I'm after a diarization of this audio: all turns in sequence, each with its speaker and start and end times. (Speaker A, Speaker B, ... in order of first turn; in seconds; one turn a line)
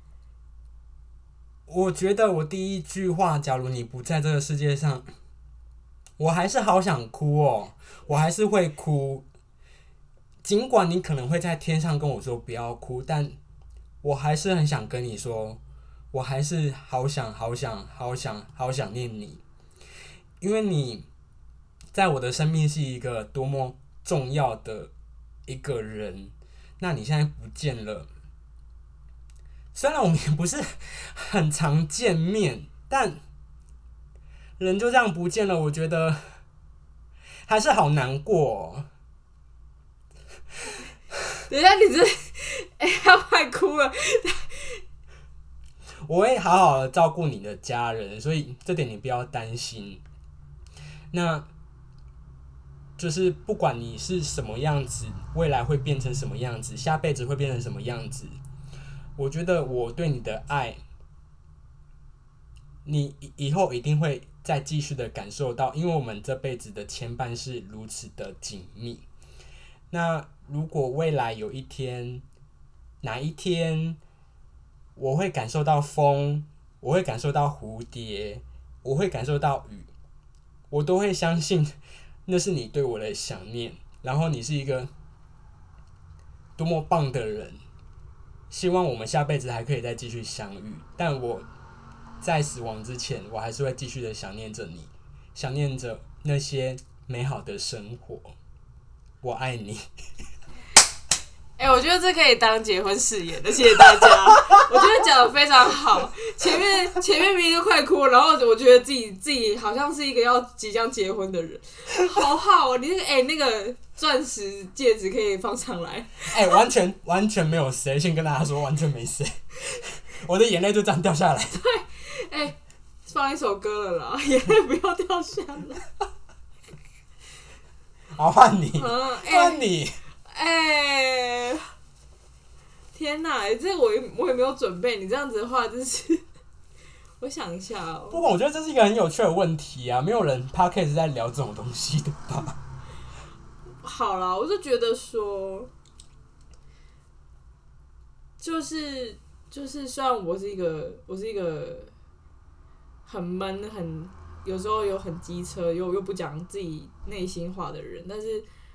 Speaker A: 1.7-5.1
Speaker A: 6.2-9.2
Speaker A: 10.4-13.3
Speaker A: 14.0-15.6
Speaker A: 16.1-19.4
Speaker A: 20.4-21.1
Speaker A: 21.9-24.9
Speaker A: 25.5-28.1
Speaker A: 29.7-33.2
Speaker A: 34.6-36.4
Speaker A: 37.5-38.9
Speaker B: 41.5-44.8
Speaker A: 46.0-50.0
Speaker A: 51.1-51.5
Speaker A: 53.0-58.4
Speaker A: 59.2-60.8
Speaker A: 62.8-69.0
Speaker A: 69.9-72.2
Speaker A: 73.0-74.0
Speaker A: 75.0-79.9
Speaker A: 80.7-81.7
Speaker A: 82.2-84.9
Speaker A: 86.6-87.6
Speaker A: 88.5-91.5
Speaker A: 92.2-98.3
Speaker A: 99.2-99.8
Speaker B: 101.6-116.5
Speaker A: 116.2-121.6
Speaker B: 121.6-125.8
Speaker A: 128.2-130.0
Speaker B: 128.7-129.7
Speaker B: 130.2-131.7
Speaker B: 132.9-136.2
Speaker B: 137.2-138.2
Speaker A: 138.1-142.6
Speaker B: 143.8-145.7
Speaker B: 148.4-151.9
Speaker B: 153.0-158.4